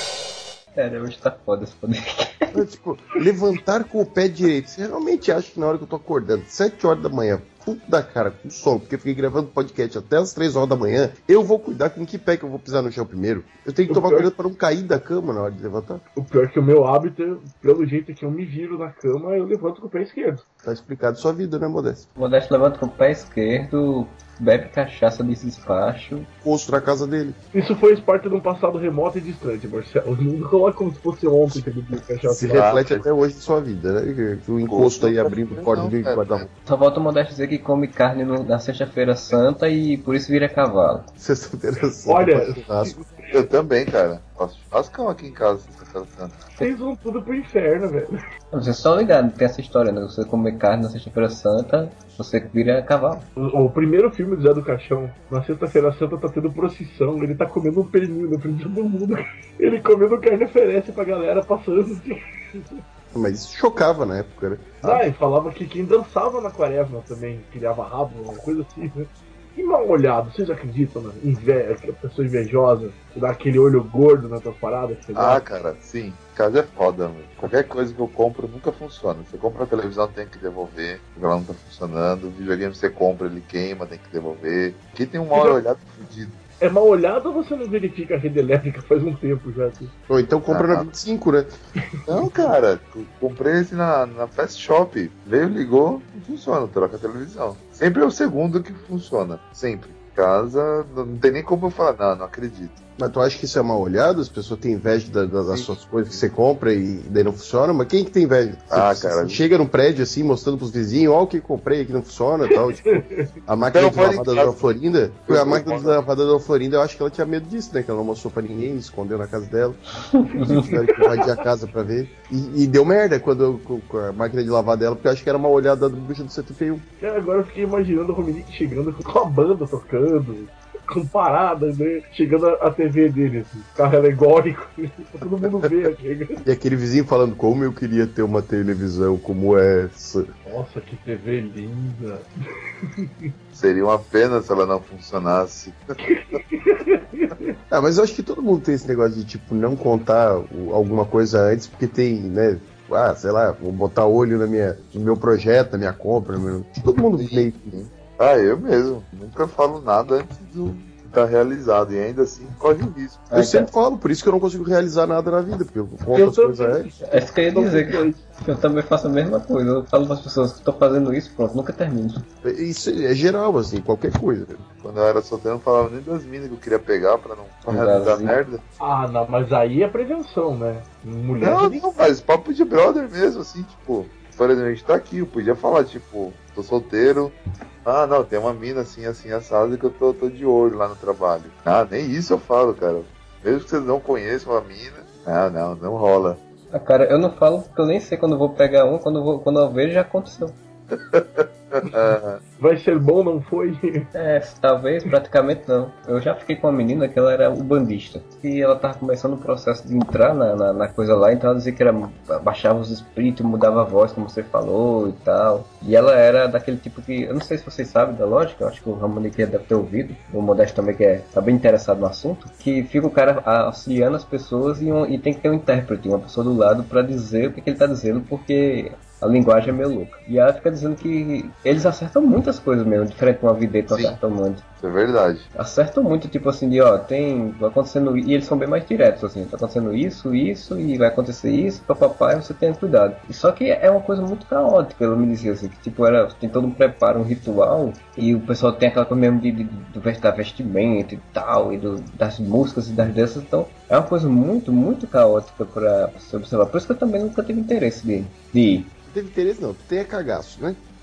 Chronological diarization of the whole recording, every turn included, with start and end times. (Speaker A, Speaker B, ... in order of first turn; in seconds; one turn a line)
Speaker A: 0.8-2.5
Speaker B: 2.5-16.0
Speaker C: 13.9-14.3
Speaker C: 16.1-20.4
Speaker B: 20.6-22.1
Speaker A: 22.2-26.3
Speaker B: 26.4-27.4
Speaker C: 27.5-32.7
Speaker B: 32.2-36.5
Speaker D: 32.5-33.1
Speaker D: 34.7-36.5
Speaker A: 36.6-41.1
Speaker B: 41.2-43.0
Speaker C: 42.1-43.0
Speaker D: 43.3-46.4
Speaker C: 46.6-48.1
Speaker A: 48.5-53.3
Speaker C: 53.4-62.6
Speaker B: 63.1-65.0
Speaker C: 64.8-75.4
Speaker D: 75.1-86.4
Speaker C: 85.3-85.6
Speaker C: 86.6-89.9
Speaker B: 90.1-91.5
Speaker D: 90.5-90.8
Speaker D: 92.1-102.8
Speaker B: 103.0-119.8
Speaker D: 105.5-105.7
Speaker D: 108.7-109.4
Speaker C: 113.0-113.2
Speaker D: 113.7-114.6
Speaker D: 115.3-116.0
Speaker C: 120.4-121.0
Speaker B: 120.5-126.8
Speaker C: 127.0-136.4
Speaker B: 136.4-140.3
Speaker C: 140.4-142.3
Speaker C: 142.8-143.3
Speaker D: 143.5-145.8
Speaker C: 146.1-147.5
Speaker B: 147.7-157.8
Speaker D: 157.2-163.2
Speaker B: 163.3-166.9
Speaker A: 163.3-163.7
Speaker C: 166.1-168.2
Speaker A: 167.0-172.3
Speaker B: 172.4-174.6
Speaker D: 174.8-178.6
Speaker A: 177.7-178.4
Speaker C: 178.8-181.8
Speaker D: 181.4-196.4
Speaker A: 196.7-200.6
Speaker D: 201.1-202.4
Speaker C: 202.6-204.1
Speaker A: 204.1-234.6
Speaker D: 233.9-234.2
Speaker D: 234.8-235.5
Speaker A: 235.6-258.9
Speaker B: 259.1-260.8